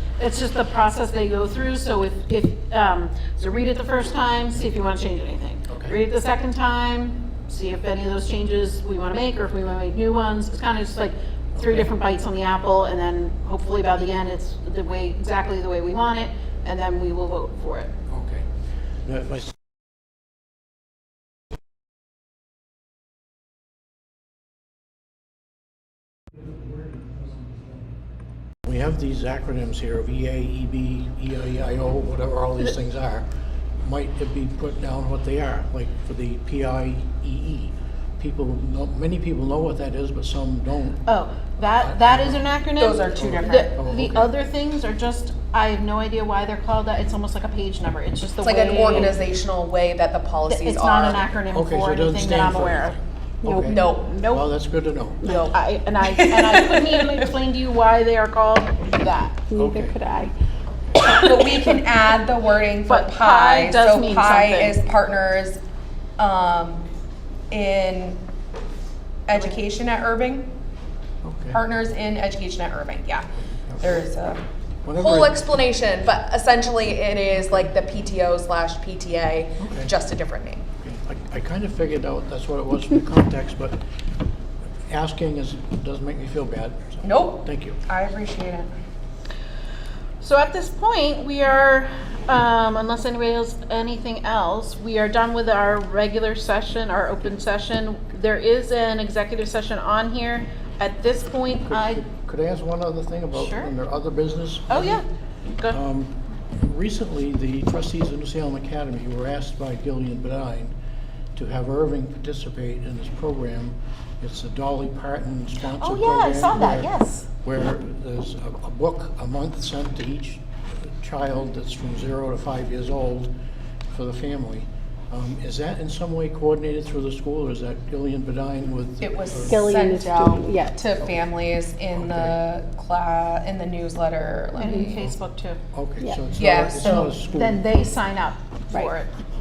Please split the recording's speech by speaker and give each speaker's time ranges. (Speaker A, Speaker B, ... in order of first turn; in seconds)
Speaker A: 0.2-17.9, 41.0-49.2, 50.5-53.0, 54.1-54.5, 55.5-59.4, 61.0-61.7, 62.9-64.8, 90.2-102.0, 103.3-103.7, 104.7-105.0, 115.8-117.3, 134.6-135.6, 136.7-139.1
Speaker B: 5.7-6.0, 11.6-11.9, 18.1-18.4, 19.1-19.5, 28.6-33.2, 33.8-41.0, 41.7-42.5, 43.2-44.3, 51.5-55.2, 59.5-59.9, 71.2-71.6, 73.7-74.0, 74.8-75.4, 79.6-79.9, 80.8-83.8, 84.9-87.8, 101.7-105.0, 105.7-110.7, 111.3-123.3, 123.9-129.5, 131.9-132.4, 135.7-137.7
Speaker C: 42.8-43.7, 48.4-51.2, 53.6-54.3, 55.2-57.2, 61.0-65.6, 66.2-66.9, 67.5-68.2, 69.3-70.5, 71.5-74.4, 74.9-80.6, 87.0-88.7, 129.0-135.1, 136.3-137.1
Speaker D: 53.4-54.0, 59.5-60.3, 129.4-131.0, 136.0-136.5